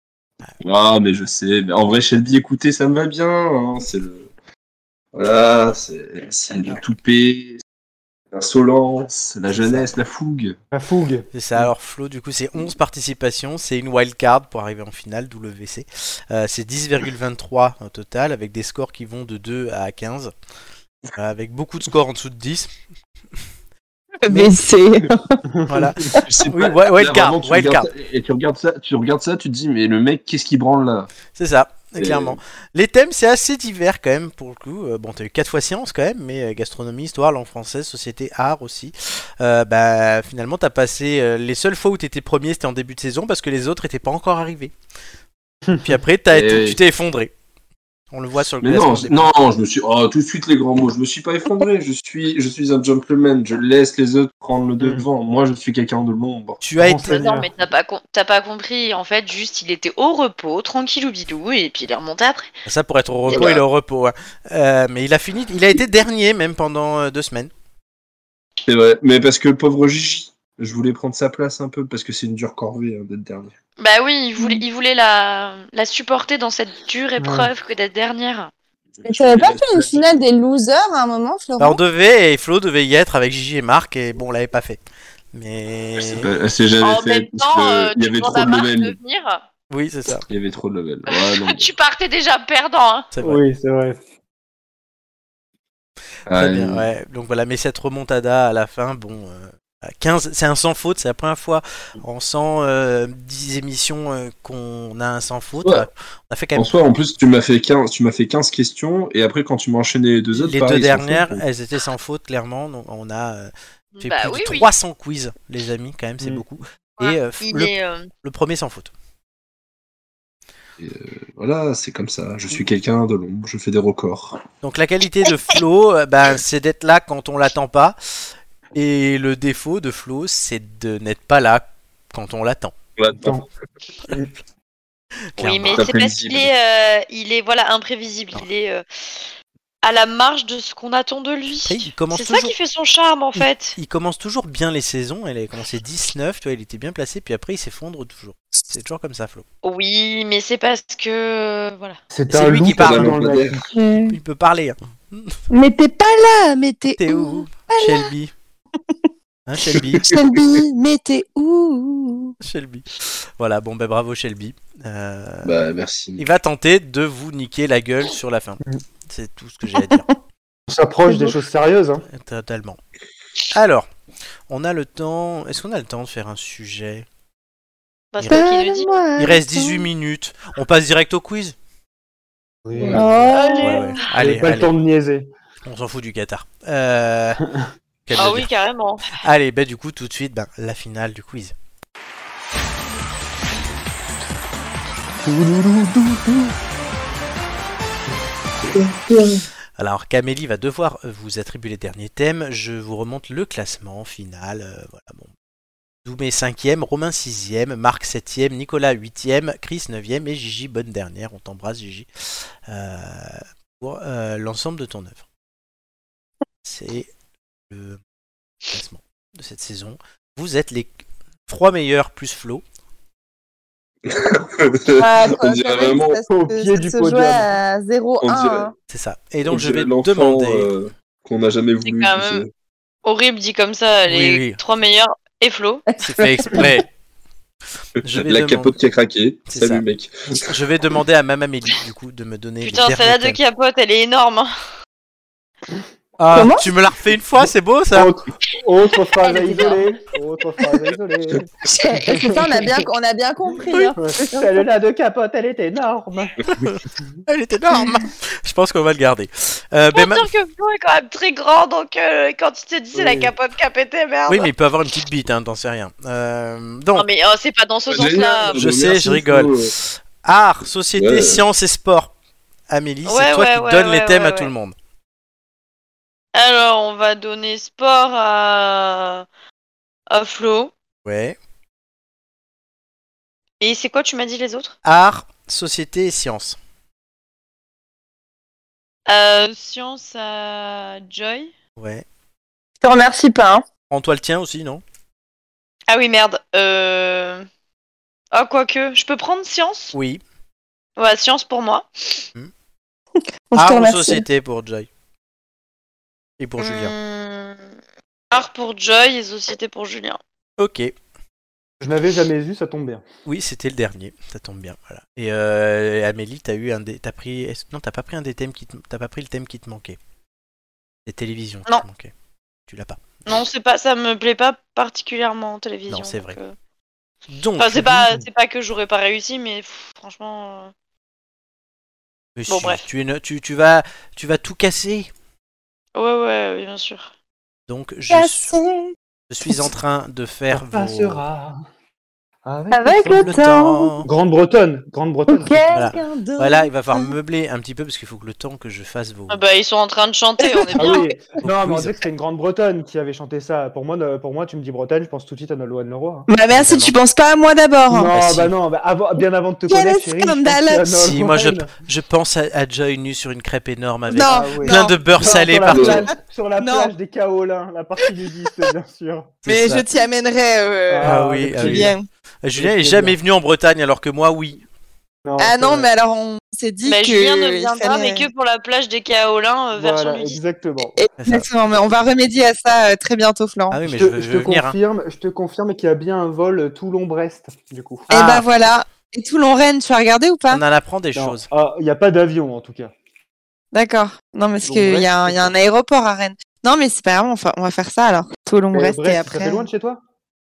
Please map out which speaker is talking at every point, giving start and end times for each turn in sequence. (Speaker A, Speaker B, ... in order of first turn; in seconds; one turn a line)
Speaker A: 0.6-4.3
Speaker A: 5.1-7.6
Speaker A: 8.3-10.6
Speaker B: 9.6-9.9
Speaker C: 10.7-11.3
Speaker B: 11.3-20.3
Speaker B: 21.2-22.7
Speaker D: 24.2-25.4
Speaker B: 24.3-24.6
Speaker C: 25.5-25.9
Speaker B: 25.7-27.9
Speaker A: 26.2-31.1
Speaker B: 31.3-44.7
Speaker A: 32.0-32.4
Speaker C: 45.7-46.0
Speaker B: 45.8-47.3
Speaker A: 46.3-46.8
Speaker B: 48.1-49.3
Speaker A: 48.6-56.6
Speaker C: 54.8-55.1
Speaker B: 56.6-57.2
Speaker C: 56.8-57.5
Speaker E: 57.0-62.5
Speaker B: 62.7-67.5
Speaker A: 63.3-63.6
Speaker A: 68.7-73.5
Speaker E: 73.8-78.5
Speaker D: 74.4-74.6
Speaker C: 77.2-77.5
Speaker A: 79.0-80.1
Speaker D: 79.0-81.8
Speaker B: 81.6-84.8
Speaker B: 85.3-86.3
Speaker A: 86.0-89.0
Speaker E: 86.8-89.4
Speaker B: 89.7-90.3
Speaker A: 90.3-91.7
Speaker E: 91.1-93.1
Speaker B: 93.1-93.4
Speaker C: 93.2-94.0
Speaker A: 96.3-96.8
Speaker B: 96.3-106.7
Speaker A: 106.5-111.4
Speaker B: 110.3-113.5
Speaker E: 114.0-114.7
Speaker B: 114.0-118.9
Speaker E: 117.0-118.1
Speaker A: 120.8-124.4
Speaker B: 124.6-128.0
Speaker B: 128.7-132.8
Speaker A: 133.0-133.4
Speaker B: 135.4-135.7
Speaker E: 135.4-138.8
Speaker A: 135.6-136.5
Speaker E: 139.8-143.8
Speaker B: 141.7-142.5
Speaker B: 143.4-149.4
Speaker E: 149.6-152.0
Speaker C: 152.1-153.7
Speaker B: 152.3-153.3
Speaker A: 152.7-153.6
Speaker D: 153.7-154.2
Speaker B: 154.1-155.3
Speaker D: 155.5-158.1
Speaker B: 157.0-158.3
Speaker B: 159.5-160.1
Speaker D: 160.0-162.3
Speaker B: 162.4-165.6
Speaker A: 165.4-166.3
Speaker B: 166.2-170.1
Speaker D: 169.8-170.1
Speaker C: 170.7-172.1
Speaker D: 171.1-171.3
Speaker B: 172.1-172.8
Speaker B: 173.5-173.9
Speaker B: 174.5-177.1
Speaker E: 178.1-179.0
Speaker D: 178.3-179.9
Speaker B: 179.2-181.6
Speaker C: 182.7-183.4
Speaker A: 182.8-183.0
Speaker D: 182.9-184.0
Speaker B: 182.9-184.7
Speaker E: 183.3-184.0
Speaker C: 184.1-185.3
Speaker B: 185.7-187.4
Speaker B: 188.1-188.5
Speaker E: 188.2-189.2
Speaker B: 189.2-191.5
Speaker C: 195.2-196.6
Speaker D: 198.8-199.4
Speaker B: 199.8-205.3
Speaker B: 206.1-212.1
Speaker B: 212.7-215.2
Speaker B: 216.6-217.1
Speaker B: 217.7-218.0
Speaker B: 218.7-220.9
Speaker B: 221.5-222.6
Speaker A: 224.1-226.2
Speaker D: 225.0-228.7
Speaker C: 226.3-227.5
Speaker A: 228.2-228.7
Speaker B: 228.9-230.7
Speaker A: 229.4-232.5
Speaker E: 231.8-232.4
Speaker E: 233.1-235.8
Speaker B: 234.1-234.6
Speaker D: 235.9-236.7
Speaker B: 236.0-236.9
Speaker A: 238.0-240.6
Speaker B: 238.0-238.8
Speaker B: 239.5-239.8
Speaker B: 240.5-243.4
Speaker E: 242.6-244.5
Speaker B: 246.2-248.1
Speaker D: 246.3-246.7
Speaker C: 247.9-252.8
Speaker D: 249.2-249.9
Speaker D: 251.7-254.6
Speaker C: 254.0-256.4
Speaker B: 256.5-260.3
Speaker E: 259.9-264.5
Speaker C: 262.9-263.3
Speaker B: 264.3-267.1
Speaker E: 266.9-268.6
Speaker A: 267.9-269.7
Speaker B: 268.6-272.1
Speaker A: 271.0-271.4
Speaker B: 272.7-274.8
Speaker E: 273.1-274.5
Speaker E: 276.4-279.3
Speaker E: 280.1-280.7
Speaker B: 281.1-281.4
Speaker E: 283.6-284.8
Speaker B: 284.9-286.6
Speaker E: 289.1-291.5
Speaker B: 291.8-292.1
Speaker D: 292.8-293.6
Speaker B: 293.9-294.8
Speaker E: 295.9-297.4
Speaker E: 298.3-299.9
Speaker B: 299.9-300.2
Speaker E: 301.0-302.3
Speaker D: 303.5-304.3
Speaker B: 303.6-304.9
Speaker B: 306.4-306.9
Speaker E: 306.6-307.7
Speaker E: 308.3-310.2
Speaker B: 310.6-310.9
Speaker C: 311.8-313.0
Speaker B: 313.3-320.0
Speaker B: 321.1-322.1
Speaker B: 322.7-323.0
Speaker E: 323.3-326.5
Speaker B: 325.9-326.4
Speaker B: 327.3-328.2
Speaker E: 327.6-330.7
Speaker B: 332.4-335.1
Speaker E: 332.5-332.8
Speaker E: 335.9-337.1
Speaker B: 337.7-338.6
Speaker D: 338.1-339.7
Speaker B: 339.3-341.2
Speaker C: 340.5-341.6
Speaker C: 342.4-343.3
Speaker D: 342.7-343.9
Speaker B: 343.2-344.1
Speaker C: 344.1-345.7
Speaker D: 345.3-347.1
Speaker B: 345.7-349.4
Speaker E: 349.3-351.1
Speaker D: 350.4-351.1
Speaker C: 350.8-356.3
Speaker B: 351.4-351.9
Speaker D: 356.3-358.4
Speaker B: 356.5-356.9
Speaker C: 357.9-361.7
Speaker B: 358.2-358.5
Speaker D: 359.7-361.0
Speaker B: 361.0-365.9
Speaker D: 364.1-366.9
Speaker C: 364.3-369.4
Speaker A: 365.7-366.1
Speaker B: 369.4-369.9
Speaker D: 369.5-372.0
Speaker C: 370.9-371.9
Speaker B: 371.0-374.6
Speaker C: 372.6-373.2
Speaker C: 375.2-375.9
Speaker D: 375.4-378.3
Speaker E: 376.9-380.4
Speaker C: 379.8-380.9
Speaker D: 380.9-383.8
Speaker B: 381.2-381.5
Speaker B: 383.7-384.8
Speaker C: 383.9-388.1
Speaker D: 388.1-390.6
Speaker B: 388.1-388.4
Speaker B: 390.5-391.5
Speaker C: 391.1-392.9
Speaker D: 393.7-399.7
Speaker C: 394.6-395.5
Speaker C: 398.7-400.0